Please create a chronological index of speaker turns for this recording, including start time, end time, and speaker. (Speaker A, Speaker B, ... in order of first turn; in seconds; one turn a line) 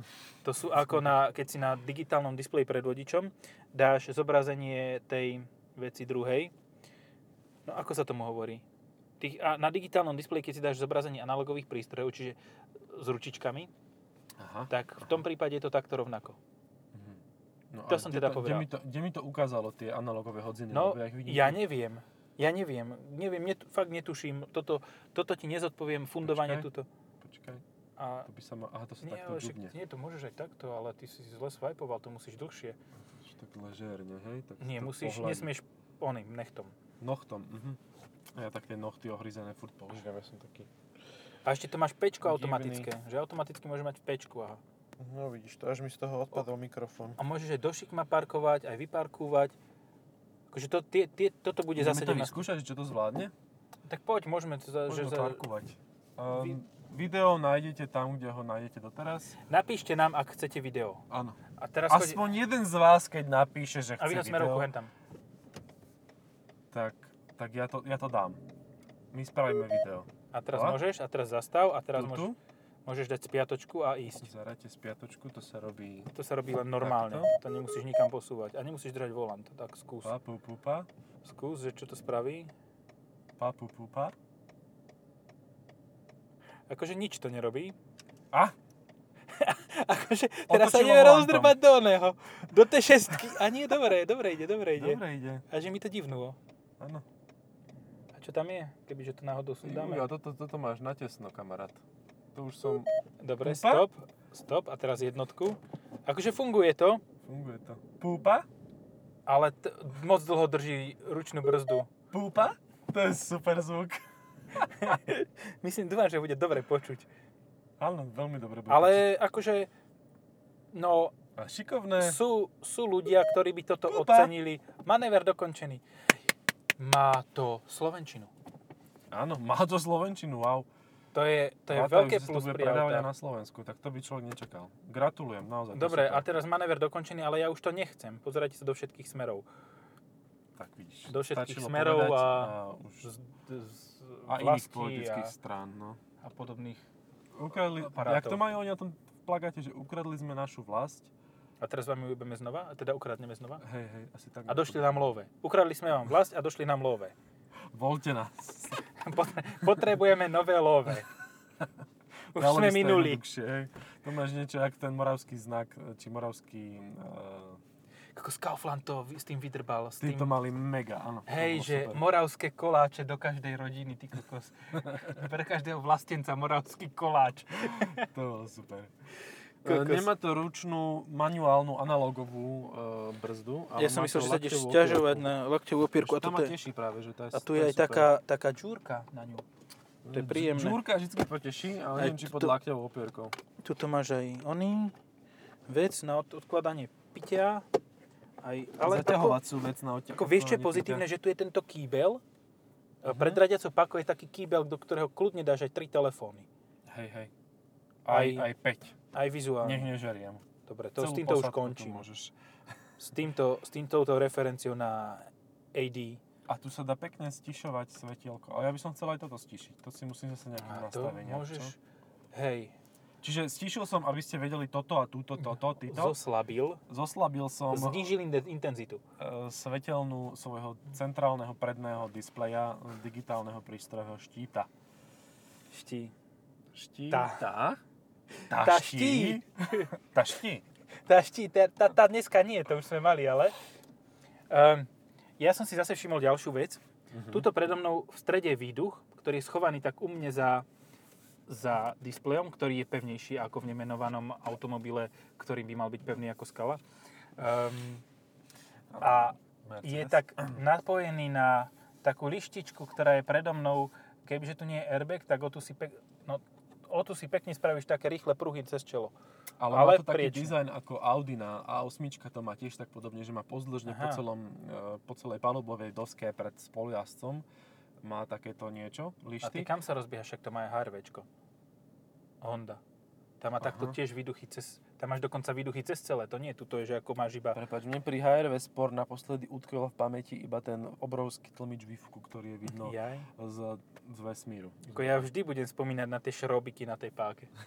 Speaker A: 0.4-6.5
Speaker A: 7.7-8.6
Speaker A: 9.2-13.7
Speaker B: 14.4-15.2
Speaker A: 14.7-16.4
Speaker B: 16.9-21.6
Speaker A: 17.9-18.7
Speaker A: 20.7-26.9
Speaker B: 26.2-26.7
Speaker B: 27.2-27.6
Speaker A: 28.0-28.3
Speaker B: 28.3-29.7
Speaker A: 29.0-32.8
Speaker B: 33.2-35.5
Speaker A: 34.6-36.8
Speaker B: 37.0-37.8
Speaker B: 38.3-40.7
Speaker A: 41.5-44.6
Speaker B: 42.2-42.9
Speaker B: 45.0-47.2
Speaker A: 47.2-49.6
Speaker A: 50.5-52.4
Speaker B: 51.8-53.3
Speaker A: 53.9-55.5
Speaker B: 54.9-59.4
Speaker A: 56.3-56.6
Speaker A: 59.5-61.0
Speaker B: 61.1-64.7
Speaker A: 61.6-62.2
Speaker A: 64.0-64.9
Speaker B: 66.7-68.4
Speaker B: 69.1-70.8
Speaker A: 70.3-72.3
Speaker B: 72.0-72.4
Speaker A: 72.9-74.3
Speaker B: 74.2-76.1
Speaker A: 76.1-80.1
Speaker B: 76.8-77.3
Speaker B: 80.0-80.9
Speaker A: 81.2-82.5
Speaker B: 83.4-84.2
Speaker A: 86.7-87.8
Speaker A: 89.3-96.4
Speaker B: 90.5-91.6
Speaker B: 94.8-95.5
Speaker B: 96.8-97.0
Speaker A: 98.1-100.1
Speaker B: 99.6-101.8
Speaker B: 102.3-102.9
Speaker A: 103.2-107.0
Speaker B: 103.4-103.9
Speaker B: 107.2-108.5
Speaker A: 109.3-111.9
Speaker B: 112.1-114.1
Speaker A: 114.6-117.1
Speaker B: 117.8-119.1
Speaker A: 118.7-119.7
Speaker A: 120.7-121.2
Speaker B: 121.4-122.2
Speaker A: 122.0-125.8
Speaker B: 123.9-124.3
Speaker A: 126.8-128.3
Speaker B: 129.1-130.7
Speaker A: 131.1-133.1
Speaker B: 131.7-136.3
Speaker A: 135.7-139.4
Speaker B: 140.6-143.1
Speaker A: 141.1-145.3
Speaker B: 144.3-146.0
Speaker A: 146.2-146.8
Speaker B: 147.3-151.1
Speaker A: 147.8-148.4
Speaker A: 151.6-153.6
Speaker B: 153.6-155.1
Speaker A: 154.5-157.1
Speaker B: 157.7-158.8
Speaker A: 158.9-161.1
Speaker A: 162.3-163.2
Speaker B: 162.3-167.6
Speaker A: 168.2-170.3
Speaker B: 170.0-172.0
Speaker A: 171.3-178.1
Speaker B: 177.9-178.9
Speaker A: 179.6-180.1
Speaker B: 179.6-185.3
Speaker A: 183.8-186.6
Speaker B: 185.9-188.1
Speaker A: 187.3-189.4
Speaker B: 190.1-193.4
Speaker A: 190.1-190.8
Speaker A: 192.0-192.6
Speaker A: 193.6-194.9
Speaker A: 195.7-197.7
Speaker A: 198.4-199.4
Speaker B: 198.8-201.1
Speaker A: 200.2-202.2
Speaker A: 203.0-206.5
Speaker B: 203.1-203.4
Speaker B: 206.9-207.3
Speaker B: 208.1-208.9
Speaker A: 208.1-208.5
Speaker A: 209.1-209.9
Speaker B: 209.6-210.4
Speaker A: 210.7-212.1
Speaker B: 211.0-212.3
Speaker A: 213.0-216.2
Speaker B: 216.5-221.8
Speaker A: 220.6-221.8
Speaker A: 222.3-222.8
Speaker B: 223.2-226.2
Speaker A: 225.4-226.8
Speaker B: 226.9-228.1
Speaker A: 227.7-229.0
Speaker B: 229.2-234.7
Speaker A: 235.7-236.1
Speaker B: 236.7-237.8
Speaker A: 237.1-237.5
Speaker A: 238.4-239.9
Speaker B: 238.5-240.6
Speaker A: 241.1-243.6
Speaker A: 244.5-250.7
Speaker B: 247.1-247.5
Speaker A: 251.5-256.8
Speaker A: 257.4-258.0
Speaker B: 258.9-260.6
Speaker A: 259.0-269.1
Speaker B: 269.6-277.5
Speaker A: 269.7-270.5
Speaker A: 273.9-274.2
Speaker B: 278.0-279.7
Speaker A: 279.4-281.3
Speaker A: 282.4-282.8
Speaker A: 283.4-287.6
Speaker B: 283.6-284.0
Speaker B: 287.5-295.2
Speaker A: 292.7-293.3
Speaker A: 294.9-297.5